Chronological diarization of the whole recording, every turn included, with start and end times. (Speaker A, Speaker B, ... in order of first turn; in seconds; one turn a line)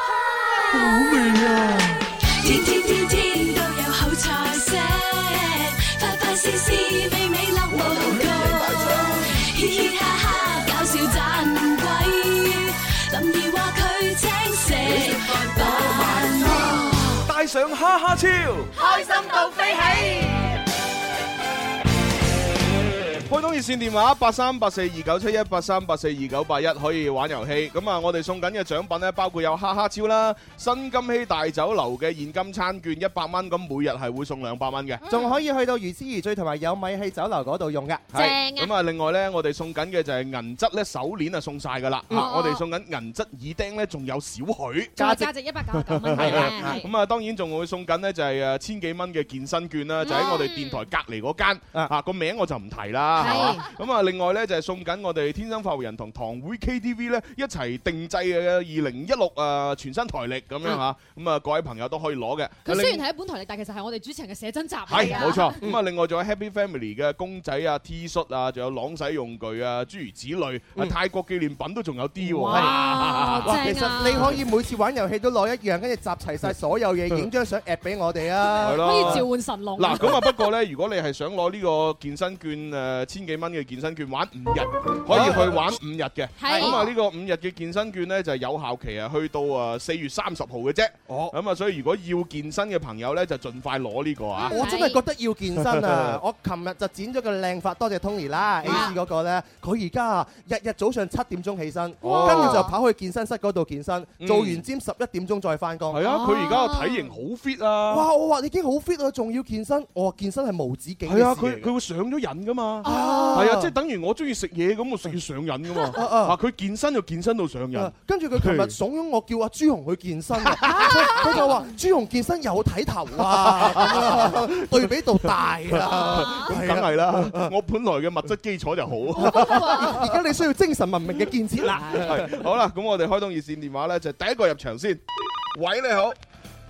Speaker A: 0.2-0.9
Speaker B: 0.7-1.9
Speaker C: 2.2-17.2
Speaker B: 8.2-8.8
Speaker B: 17.2-18.7
Speaker D: 18.7-20.6
Speaker B: 23.3-35.0
Speaker E: 35.0-38.1
Speaker D: 35.1-35.3
Speaker A: 38.1-38.7
Speaker B: 38.1-45.0
Speaker A: 42.1-42.6
Speaker A: 45.0-46.9
Speaker E: 45.0-45.3
Speaker B: 45.9-63.0
Speaker E: 46.1-46.8
Speaker A: 50.0-50.8
Speaker A: 53.2-53.7
Speaker A: 62.6-65.6
Speaker B: 64.9-74.2
Speaker D: 65.0-65.3
Speaker A: 72.2-74.3
Speaker E: 72.5-72.8
Speaker E: 73.4-79.2
Speaker A: 78.4-80.4
Speaker B: 78.6-94.6
Speaker E: 85.1-85.7
Speaker A: 86.4-86.9
Speaker E: 86.5-86.8
Speaker E: 91.1-91.3
Speaker A: 94.4-95.0
Speaker E: 94.5-106.0
Speaker B: 95.6-96.2
Speaker A: 98.6-99.0
Speaker A: 102.0-102.7
Speaker B: 102.0-102.7
Speaker B: 104.2-104.6
Speaker B: 105.9-108.0
Speaker A: 106.0-107.2
Speaker E: 107.9-111.7
Speaker B: 111.1-118.7
Speaker A: 112.8-113.5
Speaker E: 112.8-113.7
Speaker E: 115.9-116.4
Speaker E: 117.7-127.5
Speaker B: 120.4-121.5
Speaker B: 123.2-124.8
Speaker B: 125.7-130.0
Speaker A: 125.9-126.5
Speaker A: 129.1-130.0
Speaker E: 129.2-132.3
Speaker A: 131.7-132.2
Speaker B: 131.7-135.0
Speaker B: 135.5-136.2